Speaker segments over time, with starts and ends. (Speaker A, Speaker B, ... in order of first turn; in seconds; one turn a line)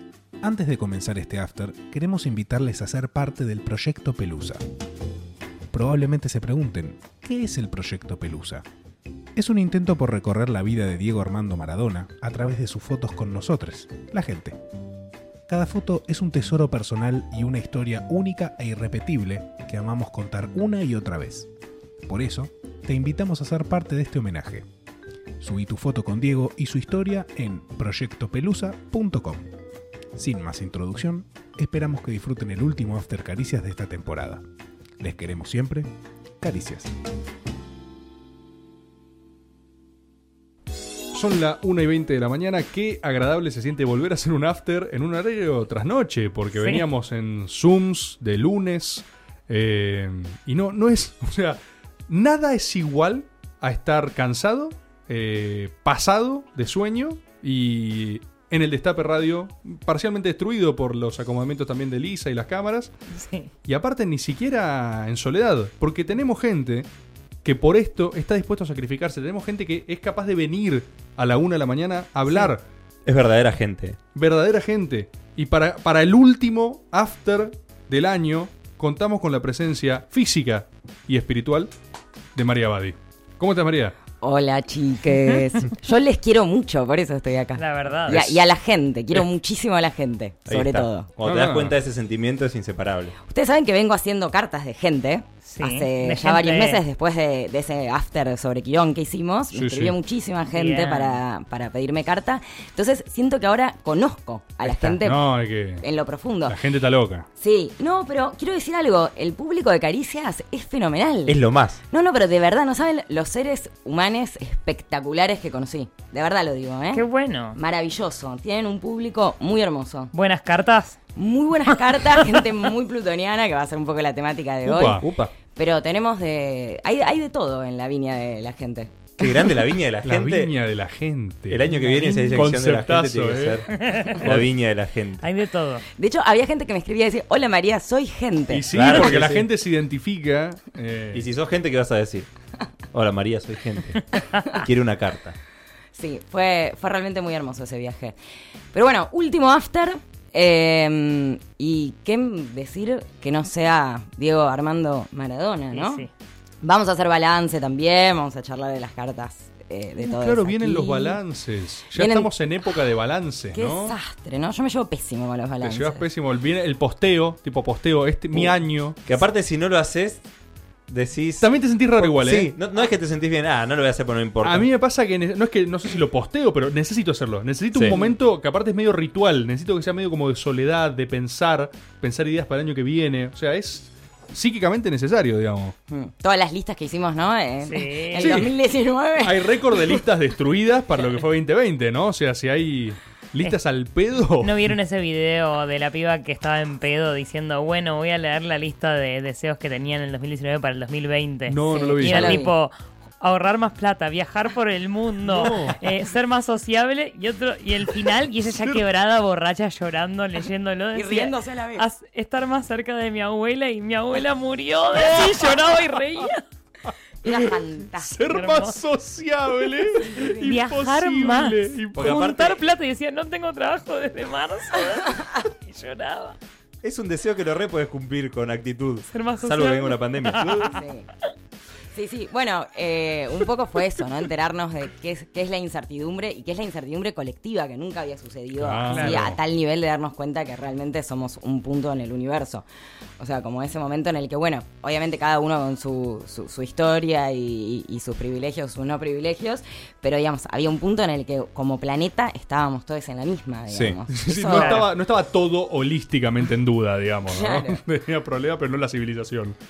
Speaker A: 0.4-4.6
Speaker A: 5.7-8.6
Speaker A: 9.3-14.6
Speaker A: 15.5-21.5
Speaker A: 22.1-24.6
Speaker A: 25.4-29.5
Speaker A: 30.1-34.4
Speaker A: 35.0-35.9
Speaker A: 36.4-36.9
Speaker B: 41.1-62.9
Speaker C: 46.6-46.8
Speaker C: 63.1-63.5
Speaker B: 63.7-66.9
Speaker B: 67.4-72.6
Speaker D: 73.0-74.0
Speaker B: 74.1-81.7
Speaker B: 82.3-83.9
Speaker E: 84.2-91.1
Speaker C: 87.6-88.2
Speaker D: 90.5-93.2
Speaker B: 91.2-91.7
Speaker E: 93.2-106.6
Speaker C: 95.5-96.8
Speaker B: 99.5-100.0
Speaker C: 100.5-101.2
Speaker B: 104.6-105.8
Speaker B: 106.5-107.3
Speaker E: 107.4-120.1
Speaker D: 111.3-111.8
Speaker C: 116.9-117.6
Speaker C: 120.1-121.0
Speaker E: 121.1-129.2
Speaker B: 124.7-125.2
Speaker D: 125.0-125.3
Speaker D: 129.2-130.5
Speaker B: 130.0-134.5
Speaker D: 131.5-135.2
Speaker C: 131.7-132.3
Speaker C: 133.7-134.2
Speaker C: 135.2-135.9
Speaker E: 135.9-138.7
Speaker B: 138.5-141.3
Speaker D: 138.7-139.4
Speaker D: 141.1-142.3
Speaker D: 142.9-145.4
Speaker E: 145.9-148.1
Speaker E: 148.7-156.1
Speaker C: 155.7-156.1
Speaker E: 156.6-161.2
Speaker B: 160.0-163.9
Speaker E: 161.9-162.3
Speaker E: 163.5-166.1
Speaker B: 165.6-169.0
Speaker D: 169.0-170.2
Speaker D: 170.9-174.7
Speaker B: 171.4-172.5
Speaker B: 174.4-185.8
Speaker E: 185.9-190.0
Speaker C: 187.6-188.3
Speaker B: 188.2-188.6
Speaker B: 189.2-194.7
Speaker C: 194.4-216.4
Speaker B: 201.5-202.4
Speaker E: 201.7-202.5
Speaker B: 205.2-205.8
Speaker E: 210.9-211.8
Speaker B: 215.0-215.5
Speaker B: 216.9-222.2
Speaker E: 217.2-218.1
Speaker C: 218.3-218.8
Speaker C: 219.6-226.4
Speaker D: 221.9-222.6
Speaker D: 226.8-230.8
Speaker C: 229.1-231.2
Speaker E: 230.6-231.1
Speaker E: 231.9-242.6
Speaker B: 238.6-239.4
Speaker C: 238.9-239.2
Speaker E: 243.2-254.9
Speaker D: 253.7-254.0
Speaker B: 254.1-259.6
Speaker C: 254.5-254.8
Speaker E: 257.3-257.8